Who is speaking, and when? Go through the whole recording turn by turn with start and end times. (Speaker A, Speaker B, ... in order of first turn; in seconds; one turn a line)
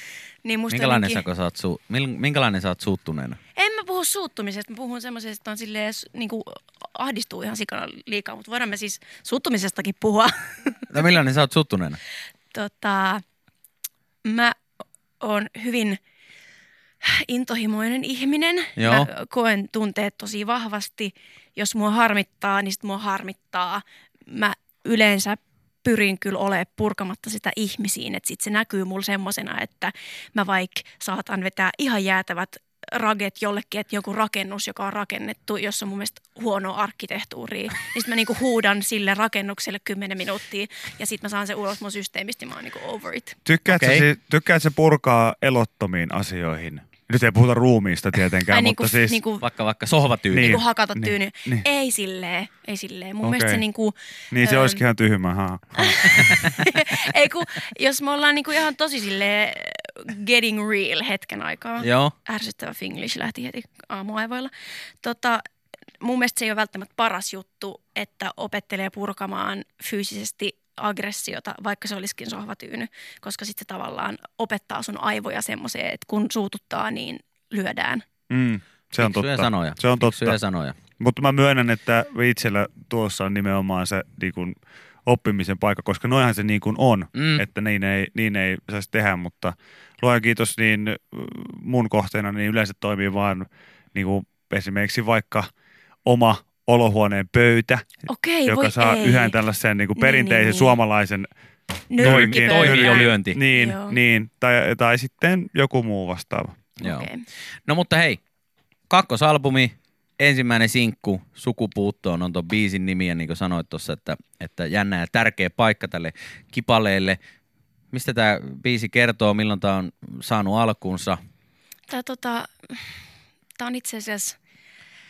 Speaker A: 0.4-1.2
Speaker B: 0.7-3.4
Speaker A: 3.6-10.8
Speaker B: 10.9-12.0
Speaker A: 12.5-13.2
Speaker A: 14.2-14.6
Speaker A: 15.2-16.0
Speaker A: 17.0-43.4
Speaker B: 18.8-19.1
Speaker C: 43.5-49.2
Speaker B: 43.7-44.1
Speaker A: 48.5-49.5
Speaker B: 49.4-50.6
Speaker C: 50.3-51.6
Speaker A: 50.4-54.8
Speaker C: 53.2-53.6
Speaker C: 54.3-56.4
Speaker A: 55.8-65.4
Speaker B: 61.8-62.1
Speaker A: 66.0-78.0
Speaker C: 78.3-80.4
Speaker B: 79.0-80.8
Speaker C: 81.0-95.5
Speaker B: 87.2-87.5
Speaker C: 96.0-97.8
Speaker A: 98.1-99.4
Speaker C: 98.5-101.3
Speaker A: 100.0-100.8
Speaker A: 101.9-104.0
Speaker C: 102.0-106.6
Speaker B: 102.0-103.4
Speaker B: 106.8-107.1
Speaker A: 106.8-107.2
Speaker B: 107.7-108.2
Speaker B: 108.9-117.2
Speaker B: 117.9-121.2
Speaker A: 121.9-122.9
Speaker A: 123.6-124.4